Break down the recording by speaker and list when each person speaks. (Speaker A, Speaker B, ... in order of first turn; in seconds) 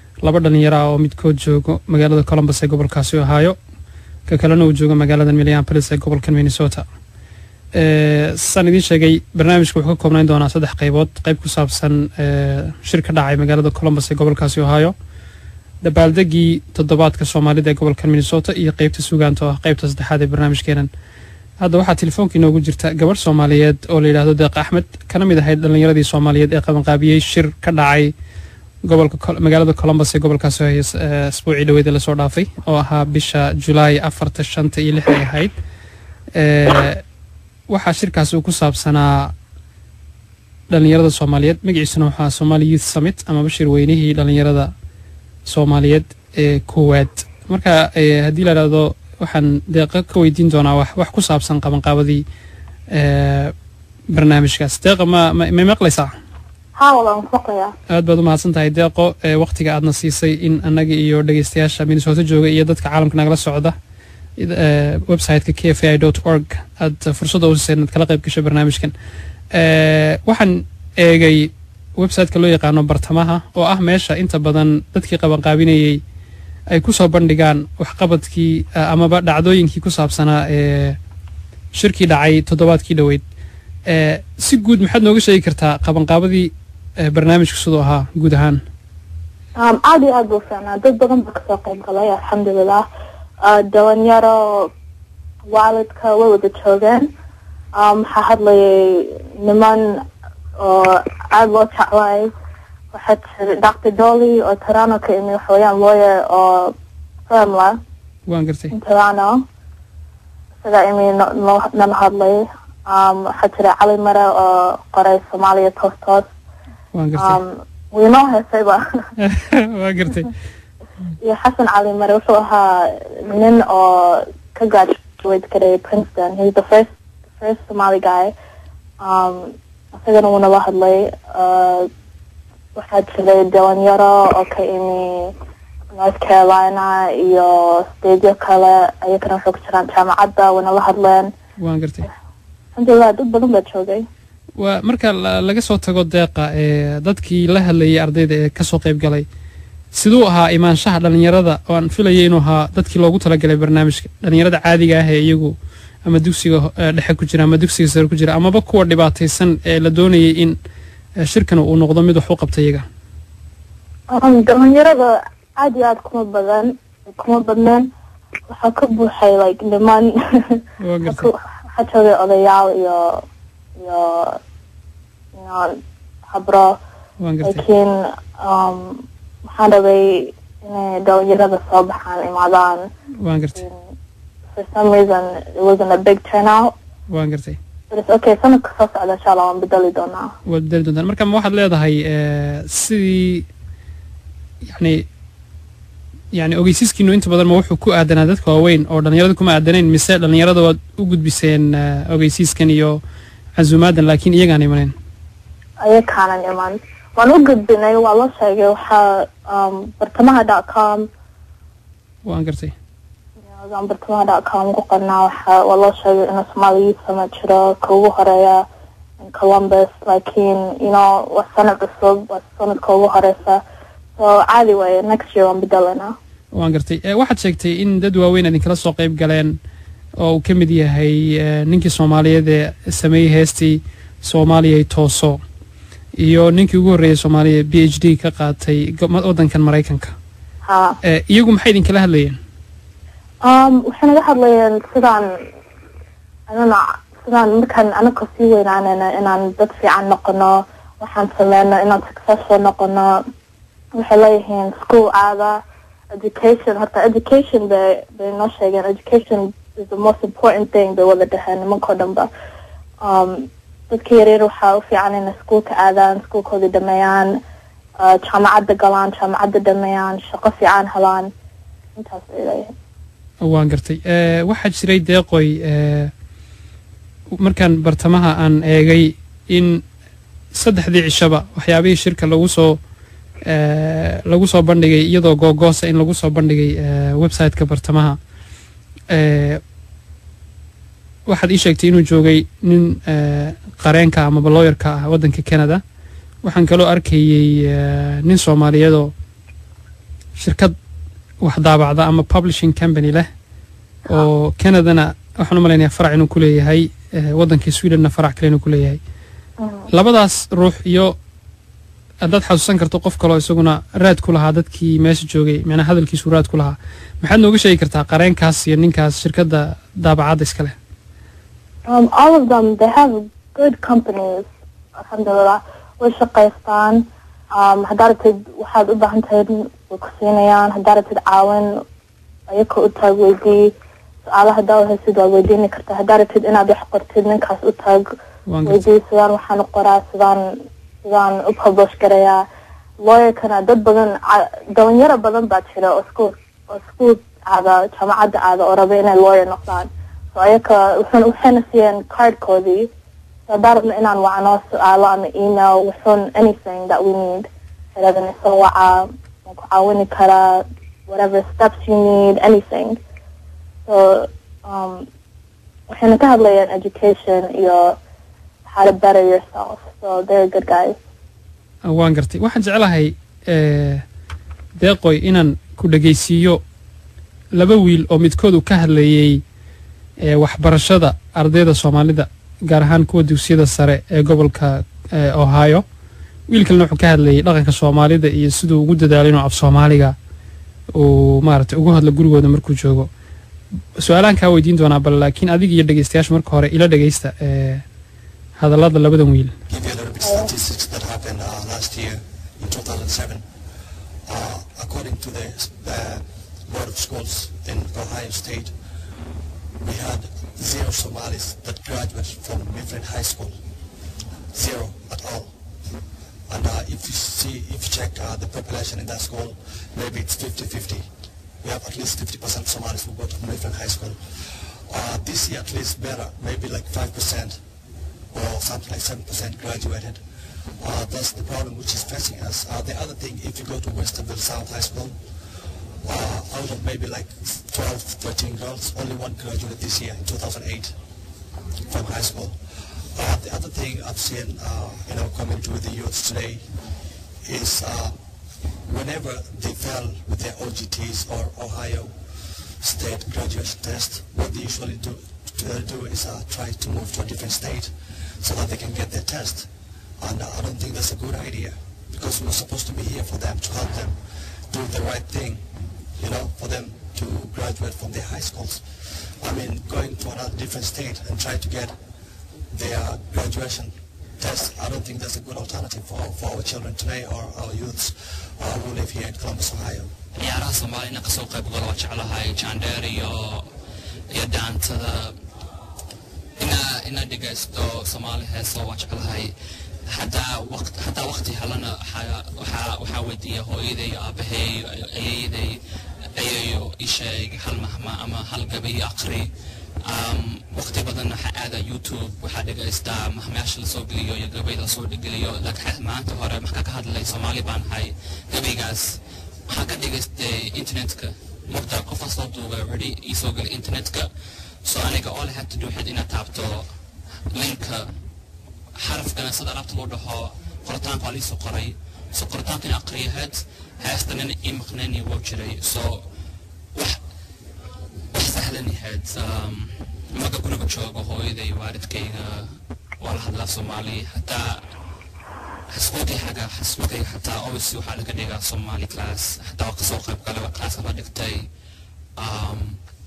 Speaker A: 0.2-3.6, 4.3-6.8, 7.7-14.9, 15.8-20.9, 21.6-28.1, 28.8-35.5, 36.3-37.0, 37.7-39.3, 40.7-44.7, 45.5-52.2, 52.9-53.5, 54.1-56.1, 57.9-63.7, 64.4-68.9, 69.5-76.0, 76.7-81.0, 81.7-83.2, 83.9-88.6, 108.3-108.7, 116.9-117.4, 119.2-120.3, 141.6-142.1, 144.6-149.2, 149.9-160.6, 161.2-162.8, 170.8-171.3, 177.2-177.6, 183.2-183.6, 187.1-187.6, 190.4-193.4, 194.6-195.0, 196.3-203.0, 203.6-204.9, 212.2-212.7, 226.5-229.6, 230.2-235.4, 236.2-240.1, 241.0-242.4, 273.4-276.1, 277.4-279.8, 280.5-282.8, 283.4-288.2, 289.1-289.6, 291.3-295.8, 296.4-299.1, 300.4-300.7, 301.4-303.3, 304.1-309.0, 309.9-311.1, 312.2-320.7, 338.5-338.9, 371.8-374.0, 374.8-376.6, 377.5-379.4, 380.2-385.8, 386.5-390.1, 390.9-393.1, 394.0-397.8, 398.6-399.5
Speaker B: 56.7-57.7, 89.5-92.8, 93.4-94.7, 95.5-97.1, 97.7-100.0, 100.6-102.3, 102.9-106.7, 107.3-107.8, 108.7-109.4, 110.6-116.3, 117.2-118.8, 121.2-128.3, 129.0-131.9, 132.7-135.3, 135.9-141.3, 142.7-144.1, 164.1-167.9, 168.5-173.2, 173.8-174.4, 175.3-176.8, 177.4-182.9, 183.6-183.8, 184.5-186.7, 187.9-190.3, 205.8-211.1, 213.5-218.6, 219.2-223.6, 224.2-226.2, 240.6-241.0, 243.4-245.4, 246.5-253.2, 253.9-255.6, 256.1-262.3, 263.0-267.4, 268.0-271.3, 271.9-272.7, 309.6-309.9, 321.9-331.8, 332.5-333.7, 334.2-338.0, 338.6-340.5, 341.0-342.4, 343.0-352.9, 353.5-363.0, 363.9-365.1, 365.9-368.0, 368.6-371.0, 400.2-400.5
Speaker C: 399.7-408.8, 409.8-413.6, 414.5-415.5, 416.5-421.1, 421.6-427.6, 428.3-441.0, 441.9-446.7, 447.4-448.2, 448.8-472.0, 472.7-480.1
Speaker D: 480.3-483.7, 484.3-485.3, 486.6-489.5, 490.1-495.8, 496.3-499.5, 500.0-516.9, 517.5-518.1, 519.0-526.2, 526.9-527.2, 528.3-534.9, 535.9-541.7, 542.4-543.0